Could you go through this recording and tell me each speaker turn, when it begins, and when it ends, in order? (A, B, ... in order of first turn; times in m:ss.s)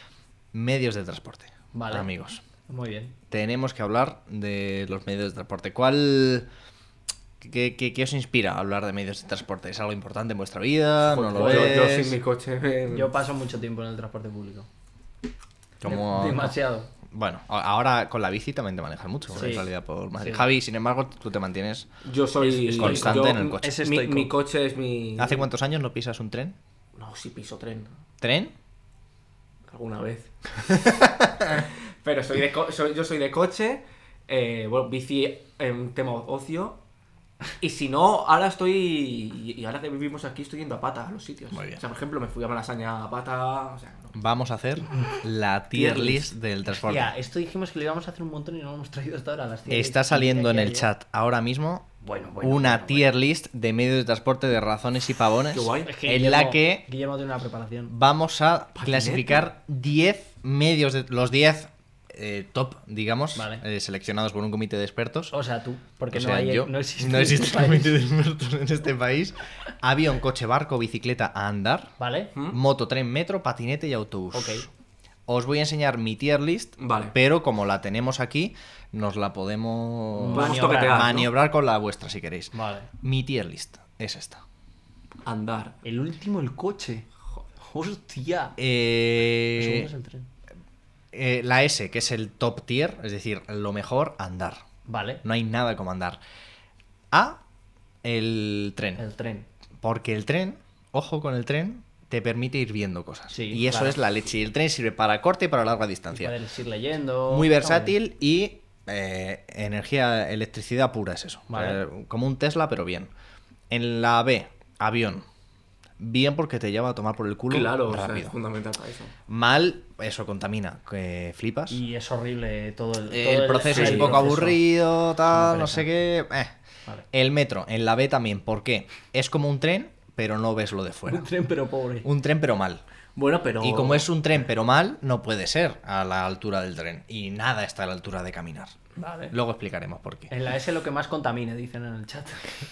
0:00.5-0:02.4 A
0:01.7-0:02.1 B
0:02.7-0:03.1 B
0:03.3-0:06.5 A
0:07.4-0:12.2 A
0:11.0-0:13.1 C
0:11.3-0:11.8 B
0:12.9-0:14.7 B
0:15.8-0:16.5 A
0:15.8-0:16.9 B
0:17.1-0:21.9 A
0:19.3-0:20.4 B
0:22.0-0:25.4 C
0:22.4-0:24.3 B
0:22.8-0:23.7 A
0:25.2-0:26.6 A
0:27.0-0:27.9 C
0:28.2-0:28.5 A
0:29.7-0:36.8 C
0:30.8-0:31.6 A
0:37.6-0:44.2 C
0:41.5-0:41.8 A
0:44.1-0:47.1 A
0:45.7-0:46.3 C
0:46.8-0:50.9 B
0:49.7-0:51.9 A
0:52.0-0:53.1 B
0:52.4-0:56.8 A
0:55.5-0:55.9 C
0:55.8-0:57.9 B
0:57.9-1:05.3 A
0:58.8-0:59.4 C
1:03.3-1:03.6 B
1:05.3-1:07.9 B
1:06.1-1:11.9 A
1:12.0-1:12.3 B
1:12.5-1:14.7 A
1:14.3-1:14.6 B
1:15.3-1:24.4 A
1:16.8-1:17.1 C
1:20.2-1:21.2 B
1:20.3-1:21.3 C
1:22.5-1:22.9 B
1:25.2-1:25.8 C
1:25.8-1:27.1 B
1:27.6-1:28.6 B
1:28.6-1:29.9 A
1:29.6-1:30.3 B
1:31.1-1:34.6 A
1:34.8-1:35.2 B
1:35.2-1:36.2 A
1:37.1-1:37.4 A
1:38.0-1:39.0 A
1:39.0-1:39.5 B
1:39.8-1:46.3 A
1:43.3-1:44.0 B
1:46.1-1:47.9 B
1:47.3-1:53.1 A
1:51.5-1:51.8 B
1:53.7-1:55.2 A
1:56.0-1:58.3 A
1:57.5-1:59.1 C
1:59.3-2:01.8 A
2:01.7-2:04.6 B
2:03.1-2:06.5 A
2:03.6-2:04.3 C
2:05.3-2:05.9 B
2:07.1-2:11.2 A
2:11.1-2:12.1 B
2:12.0-2:12.8 A
2:13.2-2:14.1 C
2:13.6-2:18.8 A
2:19.0-2:19.3 B
2:19.3-2:20.3 A
2:20.3-2:22.5 B